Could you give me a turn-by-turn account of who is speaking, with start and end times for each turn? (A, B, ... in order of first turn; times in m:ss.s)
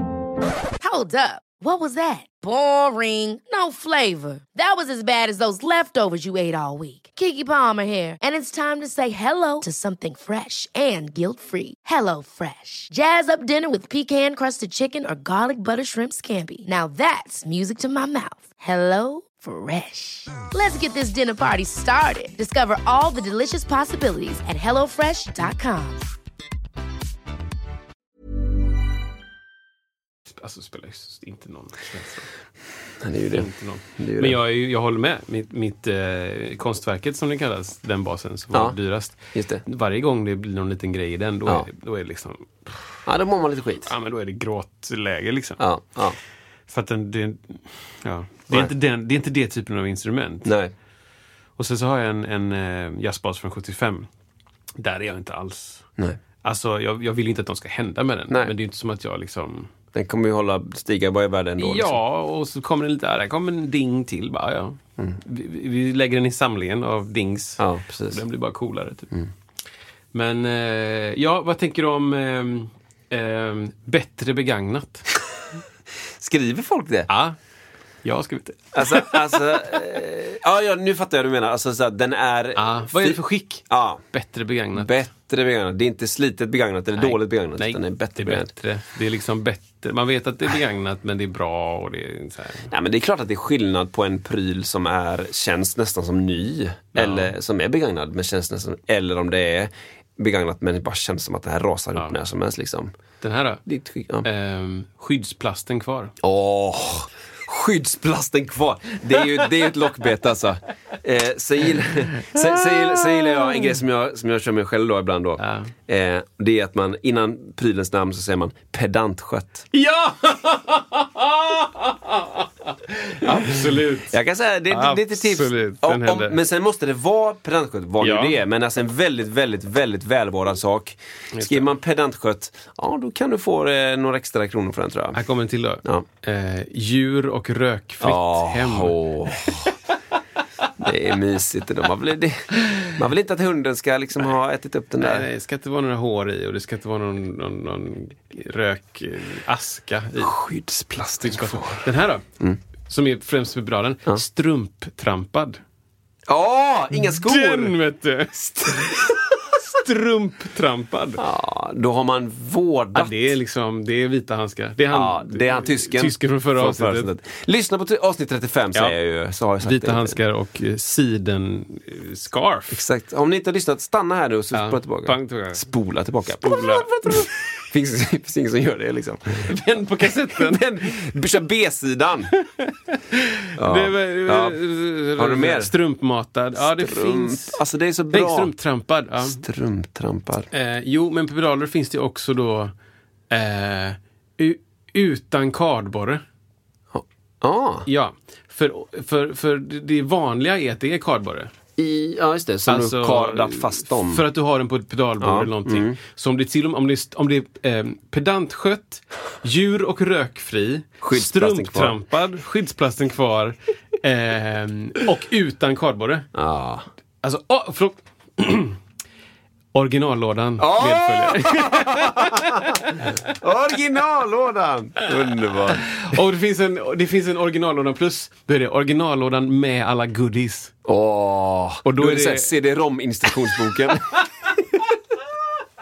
0:00.8-0:26.0 A
0:30.3-0:32.3 B
0:33.0-0:33.5 C
0:33.3-0:43.0 B
0:34.0-0:34.4 C
0:39.3-0:39.6 C
0:43.0-0:43.9 C
0:43.8-0:45.6 B
0:45.6-0:46.2 C
0:46.7-0:50.5 B
0:50.4-0:50.7 C
0:51.6-0:54.1 B
0:54.8-0:55.9 B
0:56.4-0:59.7 B
0:59.9-1:02.0 C
1:01.6-1:09.1 B
1:07.6-1:08.2 C
1:10.1-1:15.0 B
1:16.2-1:17.1 C
1:17.1-1:17.4 B
1:18.0-1:19.5 B
1:18.7-1:24.0 C
1:22.6-1:24.9 B
1:24.8-1:28.5 C
1:27.0-1:32.7 B
1:32.7-1:42.9 C
1:36.9-1:37.3 B
1:43.2-1:43.6 B
1:43.7-1:44.2 C
1:44.2-1:46.1 B
1:46.2-1:59.6 C
1:52.3-1:53.7 B
1:55.4-1:55.7 B
1:59.7-2:04.2 B
2:04.1-2:15.2 C
2:04.7-2:06.4 B
2:08.0-2:08.4 B
2:11.3-2:11.7 B
2:15.1-2:19.7 B
2:18.0-2:19.7 C
2:20.8-2:25.3 C
2:25.0-2:30.3 B
2:30.2-2:31.8 C
2:31.2-2:32.2 B
2:32.9-2:35.6 B
2:36.3-2:37.7 C
2:37.0-2:41.2 B
2:41.2-2:43.2 C
2:42.9-2:47.1 B
2:44.9-2:50.2 C
2:49.6-2:52.8 B
2:52.7-2:59.5 C
2:54.5-2:55.6 B
2:56.4-2:57.3 B
2:59.4-3:01.1 B
3:00.3-3:02.3 C
3:02.3-3:07.6 B
3:03.6-3:04.6 C
3:05.2-3:05.7 C
3:06.6-3:08.5 C
3:08.1-3:09.4 B
3:09.2-3:10.5 C
3:10.5-3:12.7 B
3:13.3-3:16.2 B
3:16.9-3:17.9 C
3:17.8-3:21.5 B
3:21.8-3:24.2 C
3:22.6-3:36.3 B
3:25.2-3:26.0 C
3:31.0-3:31.9 C
3:36.3-3:36.9 C
3:37.2-3:38.8 B
3:39.7-3:43.3 B
3:40.6-3:45.9 C
3:45.7-3:50.7 B
3:50.9-3:54.1 C
3:51.8-3:52.5 B
3:53.3-3:53.9 B